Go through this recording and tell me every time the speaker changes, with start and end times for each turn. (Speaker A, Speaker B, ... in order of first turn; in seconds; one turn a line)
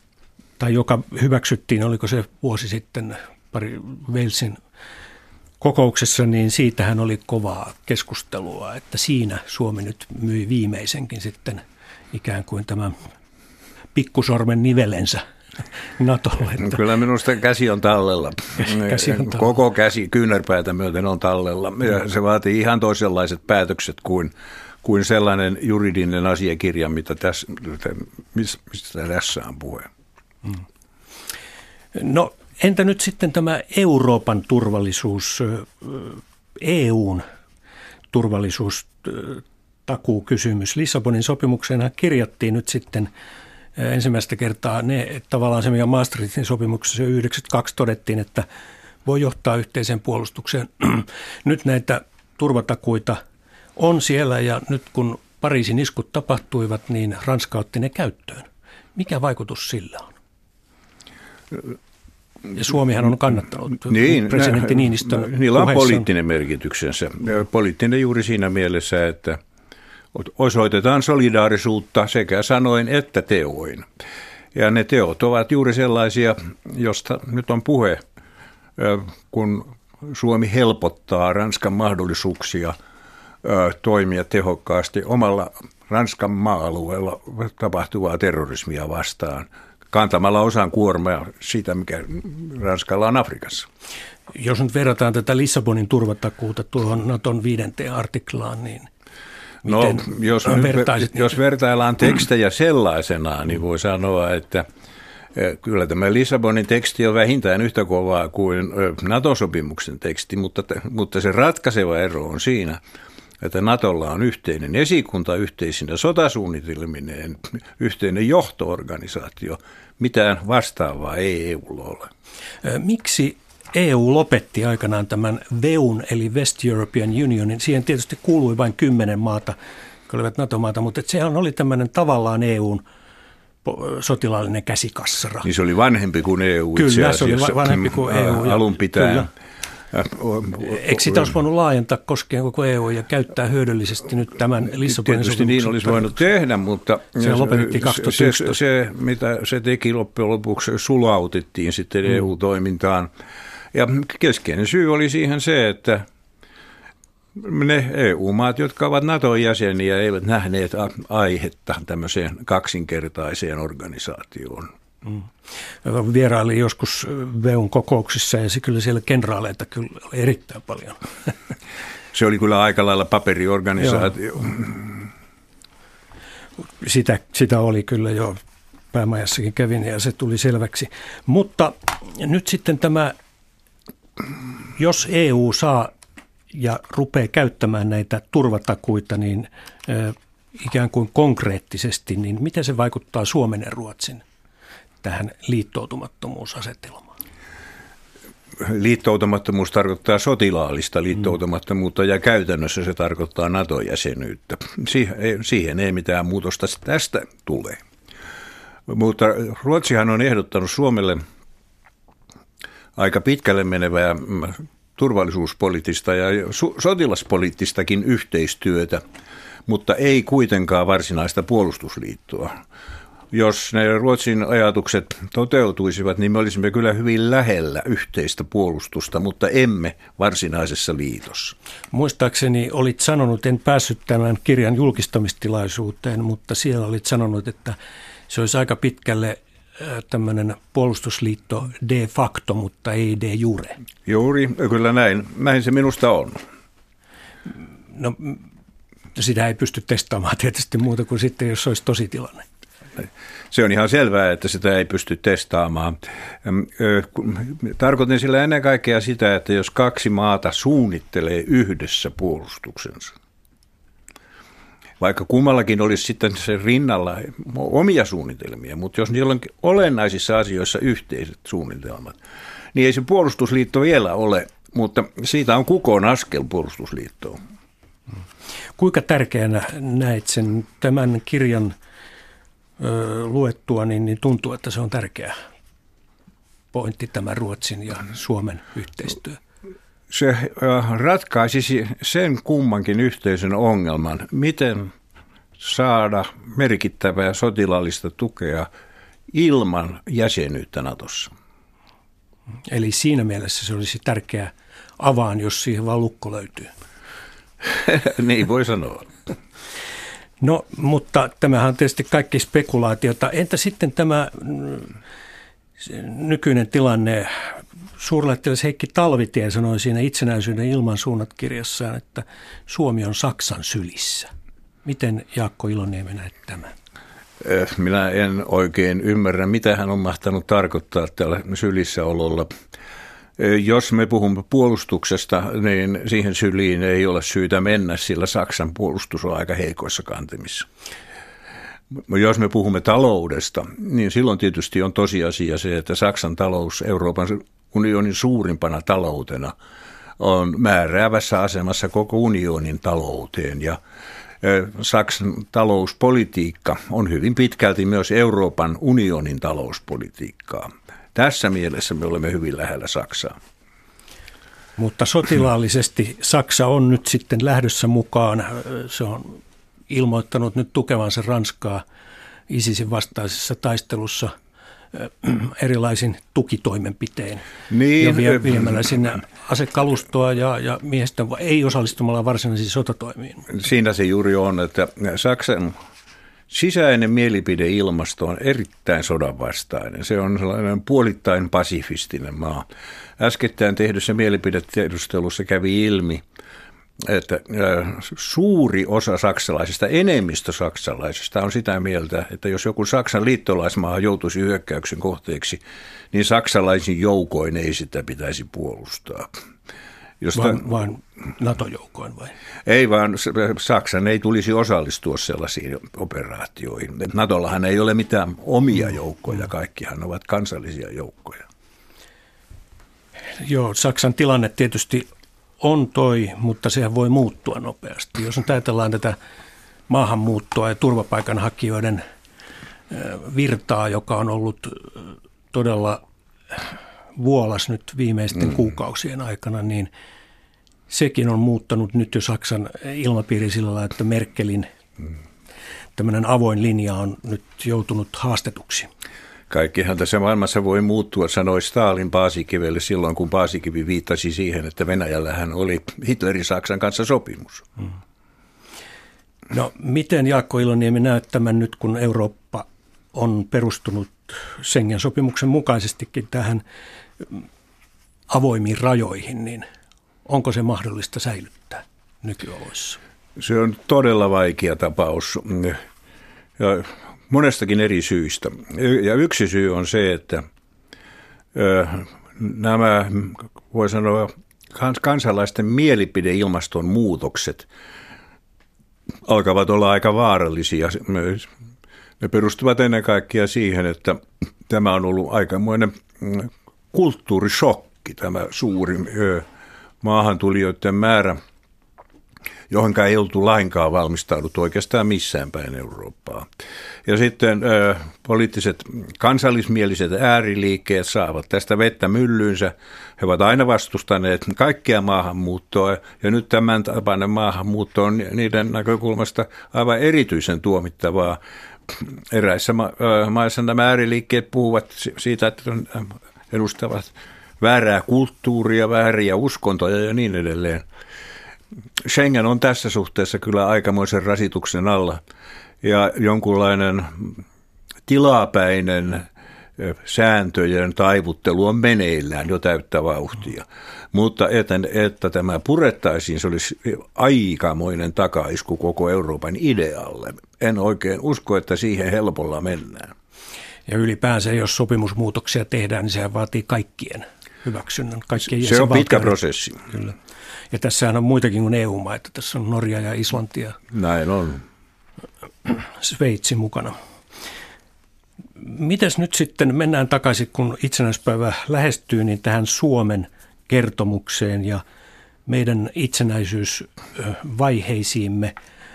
Speaker A: 0.6-4.6
Speaker A: 5.6-13.0
Speaker A: 13.9-15.2
Speaker A: 16.0-16.8
Speaker B: 16.6-29.9
Speaker A: 18.7-19.4
Speaker A: 31.9-37.2
Speaker A: 38.1-43.1
Speaker A: 43.8-48.5
Speaker A: 49.0-53.2
Speaker A: 53.8-60.1
Speaker A: 62.5-66.1
Speaker B: 63.9-69.4
Speaker B: 70.1-73.9
Speaker B: 74.5-78.0
Speaker B: 78.8-82.8
Speaker B: 83.4-93.7
Speaker A: 94.3-98.9
Speaker A: 99.6-101.3
Speaker B: 99.7-104.7
Speaker B: 105.3-112.8
Speaker B: 113.4-122.1
Speaker A: 122.6-129.6
Speaker A: 130.1-132.8
Speaker A: 133.7-135.5
Speaker B: 135.4-139.3
Speaker A: 136.8-139.3
Speaker B: 139.9-140.9
Speaker A: 140.6-146.1
Speaker B: 144.8-153.1
Speaker A: 147.2-148.6
Speaker B: 153.7-156.1
Speaker B: 157.4-164.7
Speaker A: 165.8-171.3
Speaker B: 172.1-175.1
Speaker A: 173.8-174.1
Speaker A: 176.8-178.4
Speaker A: 178.9-183.1
Speaker A: 184.8-185.9
Speaker A: 186.5-194.2
Speaker A: 195.0-197.1
Speaker B: 198.6-207.8
Speaker B: 208.9-211.2
Speaker B: 213.0-219.0
Speaker B: 219.7-222.5
Speaker B: 223.3-231.6
Speaker A: 231.9-237.8
Speaker A: 238.3-243.8
Speaker B: 244.1-246.4
Speaker A: 247.9-248.4
Speaker A: 249.2-252.4
Speaker B: 253.0-263.1
Speaker B: 265.0-272.2
Speaker B: 272.7-277.4
Speaker A: 278.8-281.8
Speaker A: 282.8-285.3
Speaker A: 286.7-289.4
Speaker B: 290.1-294.9
Speaker B: 295.6-298.7
Speaker B: 299.3-301.3
Speaker A: 302.7-306.7
Speaker B: 307.6-309.1
Speaker A: 310.4-314.9
Speaker A: 315.8-324.3
Speaker A: 324.9-326.7
Speaker B: 327.4-332.5
Speaker B: 333.4-340.7
Speaker B: 342.1-349.6
Speaker B: 350.2-353.8
Speaker B: 354.4-363.4
Speaker A: 364.8-371.8
Speaker A: 372.5-374.3
Speaker A: 374.9-377.4
Speaker B: 377.7-378.9
Speaker A: 378.0-383.5
Speaker B: 383.5-385.7
Speaker B: 386.5-392.6
Speaker B: 393.2-396.2
Speaker B: 397.0-405.6
Speaker B: 406.1-409.3
Speaker B: 410.2-410.6
Speaker A: 410.4-412.3
Speaker B: 412.7-421.4
Speaker A: 423.4-425.1
Speaker A: 425.6-429.2
Speaker A: 429.9-432.0
Speaker A: 432.9-436.0
Speaker A: 436.5-439.9
Speaker A: 440.9-444.7
Speaker A: 446.0-448.9
Speaker B: 449.5-457.7
Speaker A: 459.5-466.6
Speaker A: 468.3-469.6
Speaker A: 470.3-473.0
Speaker B: 473.4-475.8
Speaker B: 476.6-480.4
Speaker B: 481.5-487.7
Speaker B: 489.3-491.5
Speaker B: 492.2-499.4
Speaker B: 500.0-501.4
Speaker B: 502.7-506.5
Speaker B: 507.1-530.8
Speaker B: 532.1-535.2
Speaker B: 535.8-537.4
Speaker B: 538.1-539.3
Speaker B: 539.8-553.1
Speaker A: 553.9-559.4
Speaker B: 558.5-559.9
Speaker A: 560.7-563.8
Speaker B: 563.9-564.6
Speaker A: 565.6-567.0
Speaker A: 568.6-574.8
Speaker A: 575.5-578.5